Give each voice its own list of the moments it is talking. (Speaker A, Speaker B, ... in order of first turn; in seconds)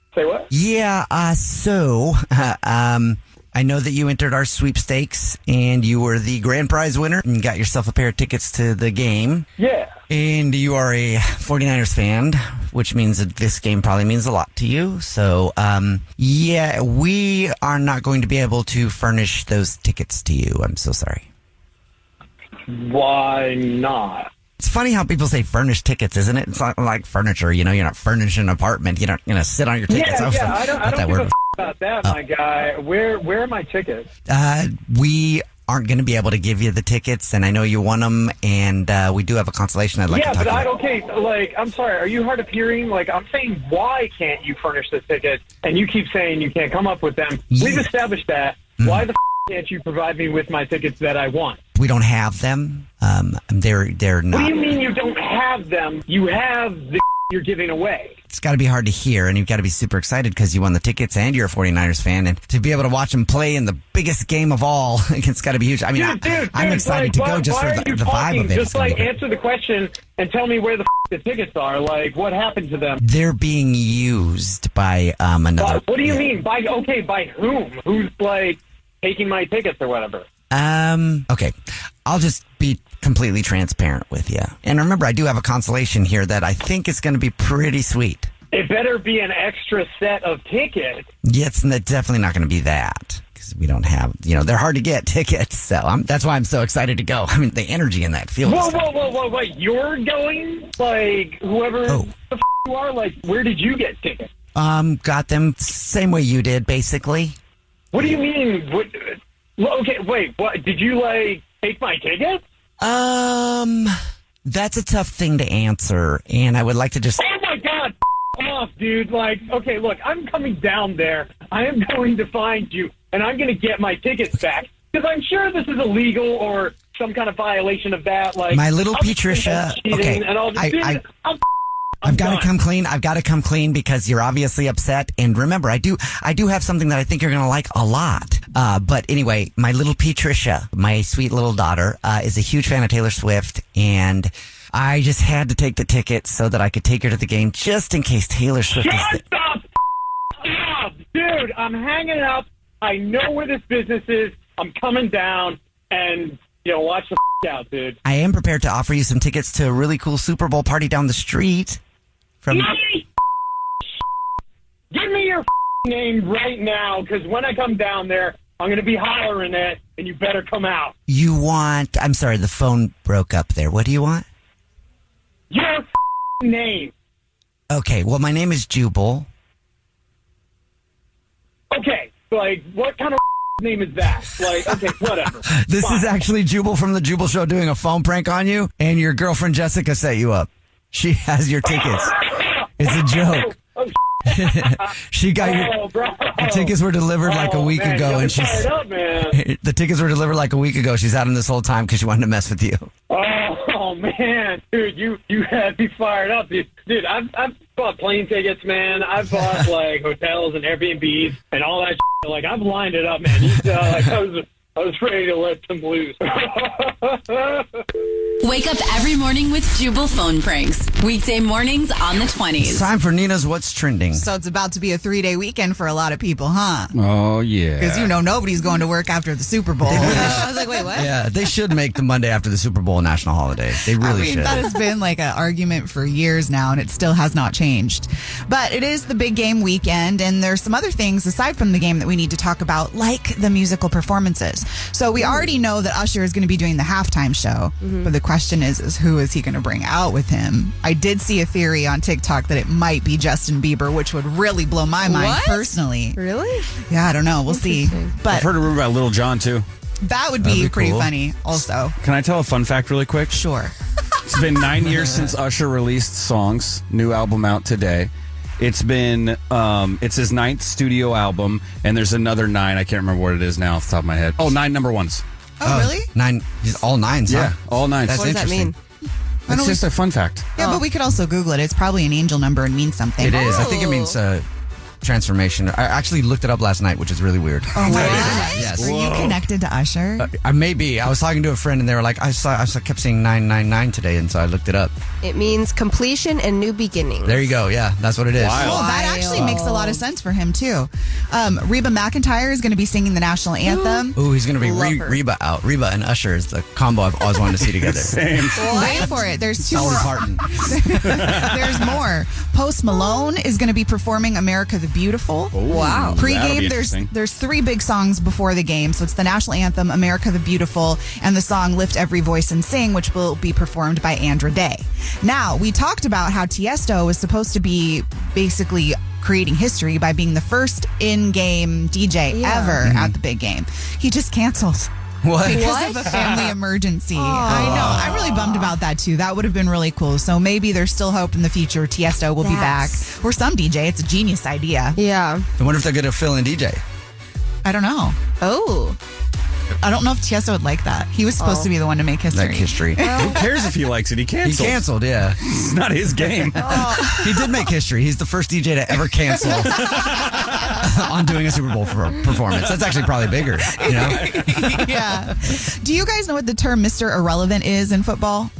Speaker A: 0.1-0.5, 9.6-9.9, 22.7-24.3, 29.9-34.1, 40.1-51.6, 54.3-58.2, 65.9-73.0, 75.6-80.2, 88.5-91.1, 98.4-104.3, 107.9-112.4, 117.2-131.4, 132.0-132.5, 148.7-149.7, 150.4-158.0, 162.5-163.0, 164.9-170.9, 175.5-175.9, 176.4-176.9, 181.7-186.1, 191.7-194.8, 195.4-196.7, 197.2-199.4, 203.1-217.8
Speaker B: 0.5-9.5, 10.1-21.3, 24.6-31.3, 34.3-40.7, 47.5-47.9, 48.8-49.1, 51.8-54.6, 58.3-69.1, 73.0-76.3, 80.5-81.5, 82.0-88.3, 91.2-98.8, 104.5-107.3, 112.8-117.2, 128.5-131.0, 132.0-149.2, 158.0-161.8, 162.4-162.8, 171.1-174.2, 177.7-179.3, 185.5-192.2, 192.8-193.5, 194.3-195.7, 196.4-198.7, 199.3-202.9, 222.6-224.2, 229.9-234.6, 260.4-261.0, 275.6-277.5, 278.1-278.7, 283.2-284.4, 285.0-288.9, 290.2-294.9, 297.2-298.8, 304.1-308.2, 309.7-310.6, 332.8-333.1, 335.2-335.7, 337.4-338.2, 345.6-346.8, 352.3-353.0, 354.4-355.4, 357.0-364.5
Speaker C: 218.4-222.9
Speaker D: 224.1-226.9, 227.8-230.8, 234.0-256.2, 256.9-258.5, 260.0-261.9, 263.3-263.7, 275.6-276.1, 279.5-279.8, 280.6-283.7, 287.7-290.3, 298.6-304.2, 308.7-315.6, 316.1-334.9, 335.4-345.0, 347.6-348.2, 349.8-353.3, 356.6-357.3, 363.8-368.5
Speaker E: 226.9-228.1, 258.3-259.6, 262.0-263.4, 264.2-275.2, 277.3-278.7, 279.5-280.5, 287.9-289.4, 298.4-299.6, 307.6-308.9, 310.9-311.9, 315.5-317.1, 353.1-354.8, 355.4-356.9, 364.2-364.5
Speaker F: 230.2-231.0, 245.2-245.5, 247.8-248.1, 255.0-256.7, 257.5-258.1, 278.1-278.7, 280.6-280.8, 283.3-284.1, 287.9-288.7, 295.2-297.4, 298.6-300.0, 303.6-304.1, 304.6-305.2, 308.5-309.2, 315.7-316.2, 332.3-332.8, 335.5-336.2, 337.1-338.7, 342.4-343.1, 344.9-345.4, 348.4-349.0, 351.4-351.7, 353.0-353.4